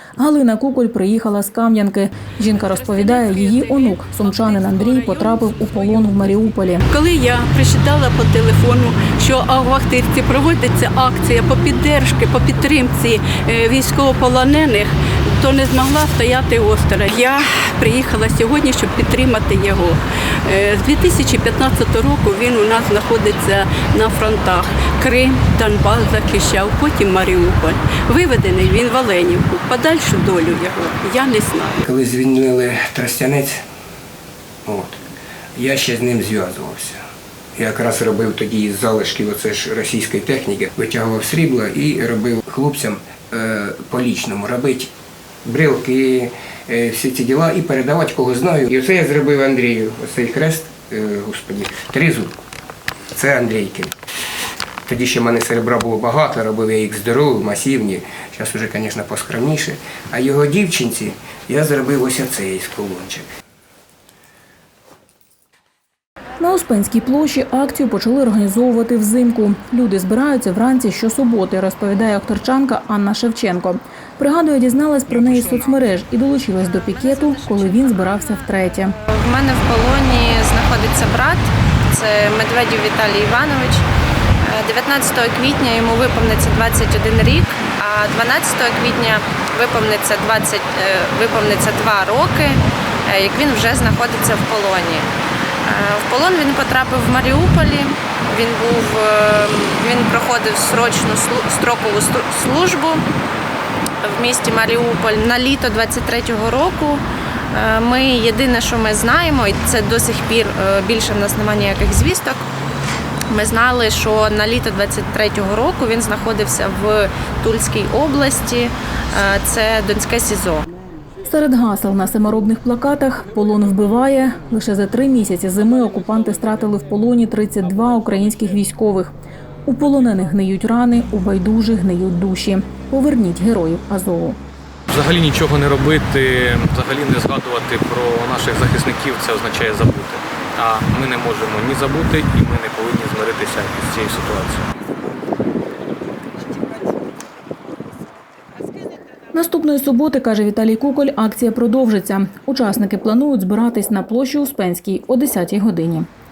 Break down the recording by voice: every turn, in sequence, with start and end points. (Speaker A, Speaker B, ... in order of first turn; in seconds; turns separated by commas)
Speaker A: 0.2-6.8, Speaker B: 2.5-31.9, Speaker C: 31.9-33.6, Speaker C: 34.6-35.0, Speaker C: 35.5-37.0, Speaker C: 37.5-44.9, Speaker C: 45.4-52.3, Speaker C: 53.1-53.9, Speaker C: 54.9-63.3, Speaker A: 66.4-78.9, Speaker D: 76.6-78.5, Speaker D: 79.1-83.8, Speaker D: 84.4-95.0, Speaker D: 95.6-103.0, Speaker D: 104.0-112.4, Speaker D: 113.3-120.7, Speaker A: 121.2-129.1, Speaker A: 129.6-134.4, Speaker E: 134.9-144.6, Speaker A: 149.3-156.1